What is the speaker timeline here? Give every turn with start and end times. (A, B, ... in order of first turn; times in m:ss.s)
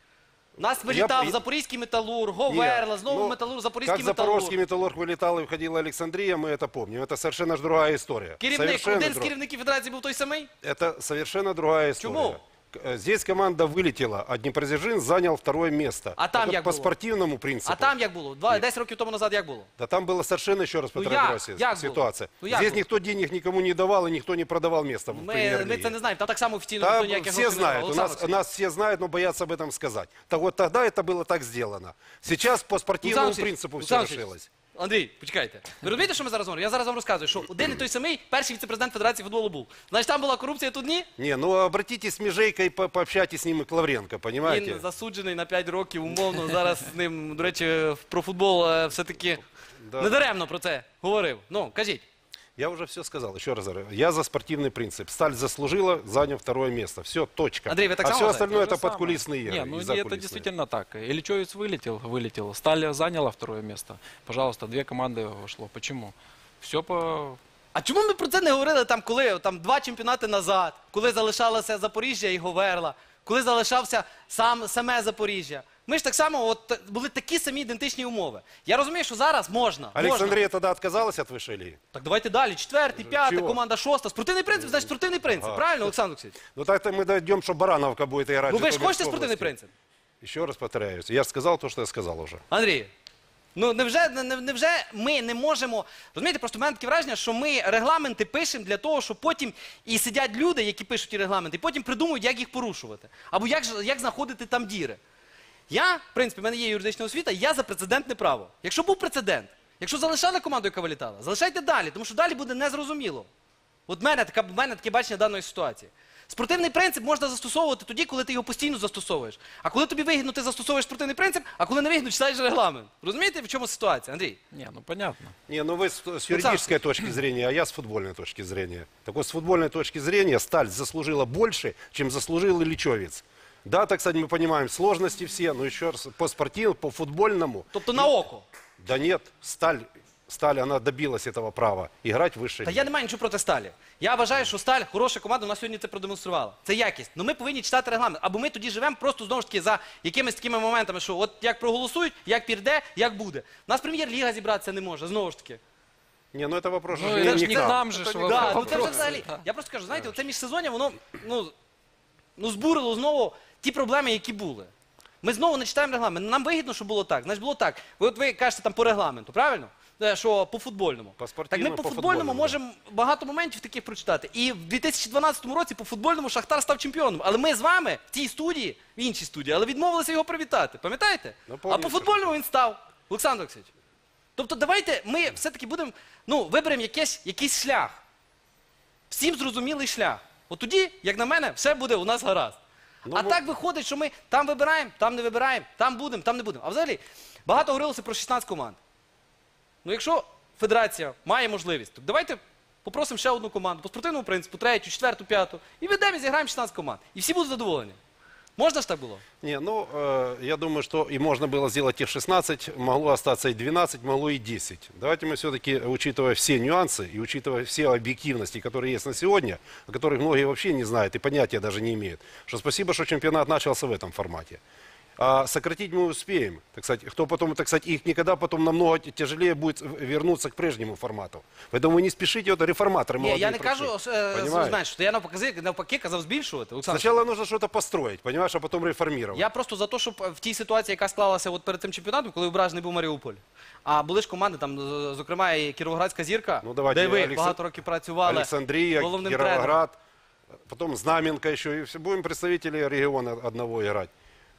0:00.6-0:04.6 A
0:00.8-0:01.4 B
0:02.5-0:09.3 B
0:08.4-0:10.5 A
0:10.6-0:18.6 B
0:12.0-0:12.4 A
0:16.2-0:17.0 A
0:17.6-0:19.7 A
0:19.8-0:26.0 B
0:20.9-0:22.9 A
0:25.1-0:28.4 A
0:26.8-0:34.5 B
0:33.0-0:41.1 A
0:41.2-0:44.8 B
0:44.4-0:49.4 A
0:49.8-0:50.2 B
0:50.0-0:52.0 A
0:52.6-1:00.5 B
0:57.7-0:58.6 A
0:58.3-1:07.4 C
1:07.7-1:20.4 A
1:19.9-1:21.8 B
1:21.9-1:26.4 A
1:22.9-1:23.6 B
1:24.5-1:25.9 B
1:26.5-1:29.5 B
1:28.5-1:29.7 A
1:30.2-1:32.4 B
1:32.5-1:32.9 A
1:33.5-1:45.0 A
1:45.7-1:53.3 A
1:53.9-2:04.4 A
2:04.5-2:05.3 C
2:05.5-2:18.1 B
2:06.3-2:06.8 A
2:17.7-2:18.4 A
2:18.8-2:22.9 B
2:22.6-2:35.6 A
2:36.3-2:39.2 B
2:37.0-2:39.4 C
2:37.2-2:37.7 A
2:38.2-2:41.5 A
2:42.4-2:44.7 A
2:45.2-3:03.7 A
2:51.2-2:52.6 B
3:01.5-3:02.3 B
3:04.4-3:08.0 A
3:09.1-3:12.6 A
3:13.0-3:13.4 B
3:13.1-3:18.8 A
3:19.8-3:28.0 A
3:28.6-3:29.2 A
3:29.4-3:44.6 B
3:45.2-3:54.8 B
3:53.2-3:57.2 A
3:56.9-3:59.5 B
3:59.3-4:09.8 A
4:06.6-4:07.6 B
4:08.2-4:10.0 B
4:10.7-4:14.1 B